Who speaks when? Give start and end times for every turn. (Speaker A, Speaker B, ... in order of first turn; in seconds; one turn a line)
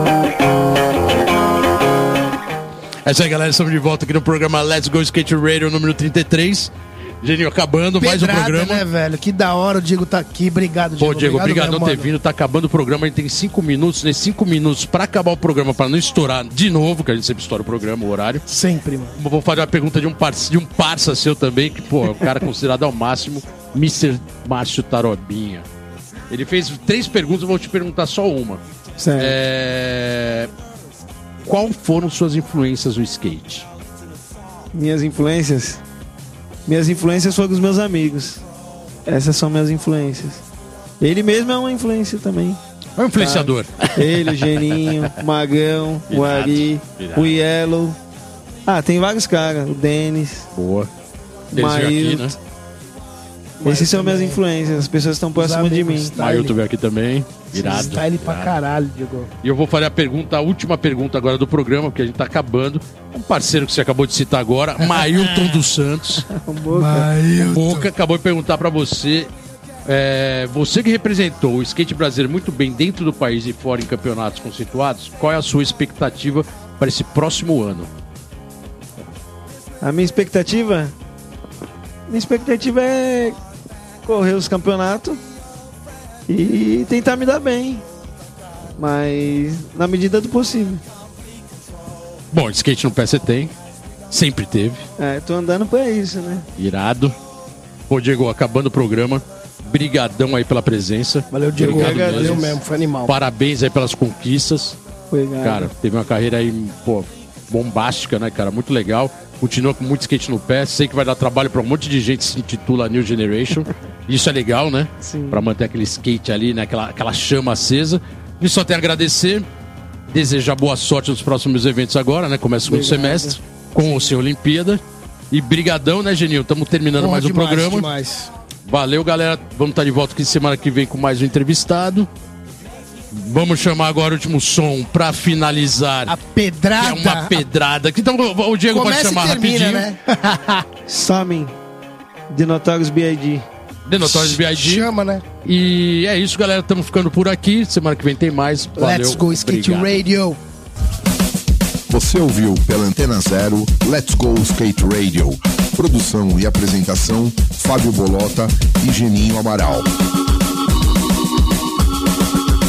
Speaker A: 3.0-8.8
Speaker B: 8.0-12.1
Speaker A: 11.0-18.4
Speaker B: 18.5-19.1
Speaker A: 19.1-25.6
Speaker A: 26.3-28.6
Speaker C: 29.0-29.4
Speaker A: 29.1-30.5
Speaker A: 31.4-33.6
Speaker C: 34.7-35.8
Speaker C: 36.7-38.4
Speaker C: 39.0-40.4
Speaker C: 41.0-42.6
Speaker A: 43.0-45.1
Speaker C: 43.1-48.0
Speaker A: 46.1-47.4
Speaker C: 48.6-50.5
Speaker A: 50.5-50.9
Speaker C: 51.5-52.4
Speaker A: 51.5-52.3
Speaker B: 53.6-54.4
Speaker C: 53.6-56.1
Speaker B: 55.3-56.5
Speaker A: 56.2-58.5
Speaker B: 57.5-59.3
Speaker A: 59.4-66.3
Speaker B: 64.8-65.6
Speaker C: 66.3-67.1
Speaker B: 66.7-67.9
Speaker A: 67.4-69.3
Speaker A: 69.8-77.9
Speaker C: 79.8-80.9
Speaker C: 82.1-83.4
Speaker C: 84.0-85.2
Speaker C: 86.3-87.8
Speaker C: 88.8-90.8
Speaker A: 92.3-93.5
Speaker A: 94.1-94.8
Speaker C: 95.0-96.5
Speaker A: 96.6-97.1
Speaker A: 97.9-104.8
Speaker B: 101.3-103.1
Speaker C: 101.5-102.5
Speaker C: 105.1-105.7
Speaker A: 105.4-119.4
Speaker C: 115.0-115.5
Speaker A: 120.1-127.9
Speaker C: 122.7-123.4
Speaker B: 127.0-128.3
Speaker A: 128.7-132.1
Speaker A: 133.1-136.1
Speaker B: 136.1-137.4
Speaker A: 136.8-139.9
Speaker B: 138.7-140.6
Speaker C: 140.9-141.5
Speaker C: 142.3-143.4
Speaker A: 143.9-144.9
Speaker B: 144.0-145.2
Speaker A: 145.4-150.0
Speaker B: 148.8-150.4
Speaker D: 151.9-159.9